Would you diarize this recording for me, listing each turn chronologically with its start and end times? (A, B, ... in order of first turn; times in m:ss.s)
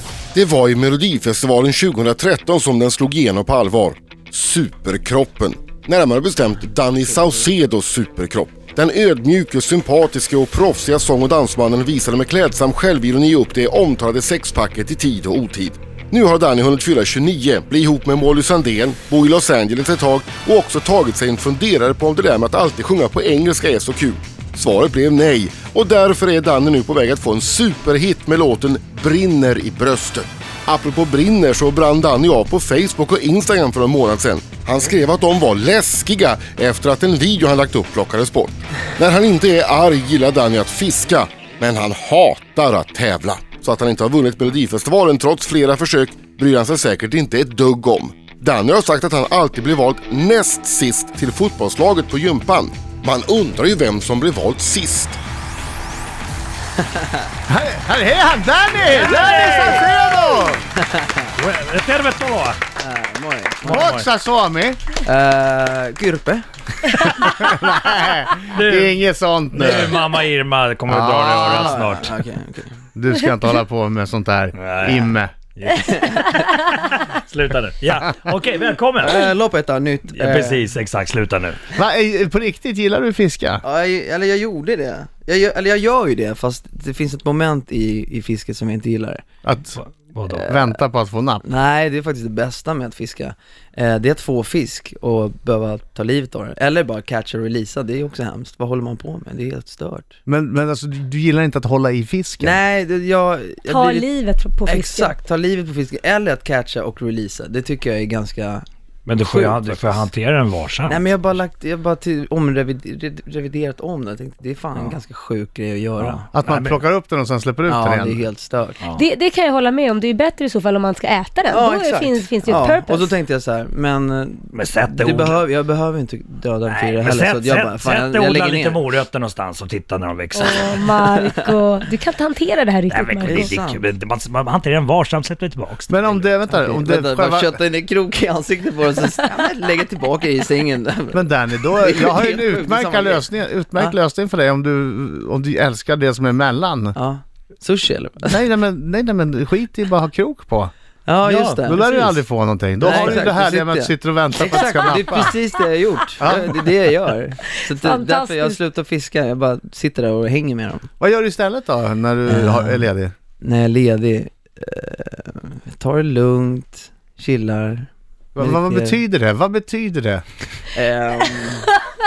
0:00.3-0:55.2 A
0:56.8-0:57.2 B
0:57.5-1:00.7 C
0:58.8-0:59.9 D
1:00.8-1:01.3 B
1:01.4-1:02.6 D
1:02.8-1:04.0 B
1:03.6-1:04.0 D
1:03.7-1:04.8 C
1:05.0-1:06.4 B
1:07.0-1:10.0 C
1:08.5-1:09.0 D
1:09.5-1:12.1 D
1:10.9-1:11.8 C
1:11.4-1:12.8 B
1:12.9-1:15.3 C
1:14.5-1:19.3 D
1:15.7-1:16.4 B
1:19.0-1:20.6 B
1:20.1-1:21.6 D
1:21.7-1:23.6 C
1:23.6-1:29.2 B
1:29.4-1:31.4 C
1:29.8-1:30.4 D
1:30.3-1:30.8 B
1:31.4-1:40.2 B
1:40.2-1:42.6 C
1:42.4-1:44.1 B
1:43.7-1:45.1 E
1:44.6-1:48.6 B
1:49.0-1:51.0 D
1:49.2-1:50.0 B
1:50.9-1:56.3 B
1:56.0-1:56.8 D
1:56.3-1:58.2 C
1:57.7-1:58.8 B
1:58.9-2:03.1 E
2:01.5-2:08.8 B
2:04.5-2:05.4 D
2:06.7-2:10.6 D
2:10.4-2:13.5 E
2:10.4-2:11.5 B
2:12.9-2:16.2 D
2:13.2-2:13.8 B
2:15.9-2:17.6 C
2:16.5-2:24.0 B
2:21.1-2:27.0 C
2:26.9-2:28.4 B
2:28.2-2:30.7 C
2:31.0-2:32.2 B
2:31.2-2:35.3 C
2:32.8-2:40.9 B
2:36.2-2:36.7 C
2:37.7-2:38.6 E
2:41.0-2:43.1 C
2:42.2-2:42.9 B
2:43.4-2:49.0 B
2:48.3-2:50.2 C
2:50.7-2:51.8 B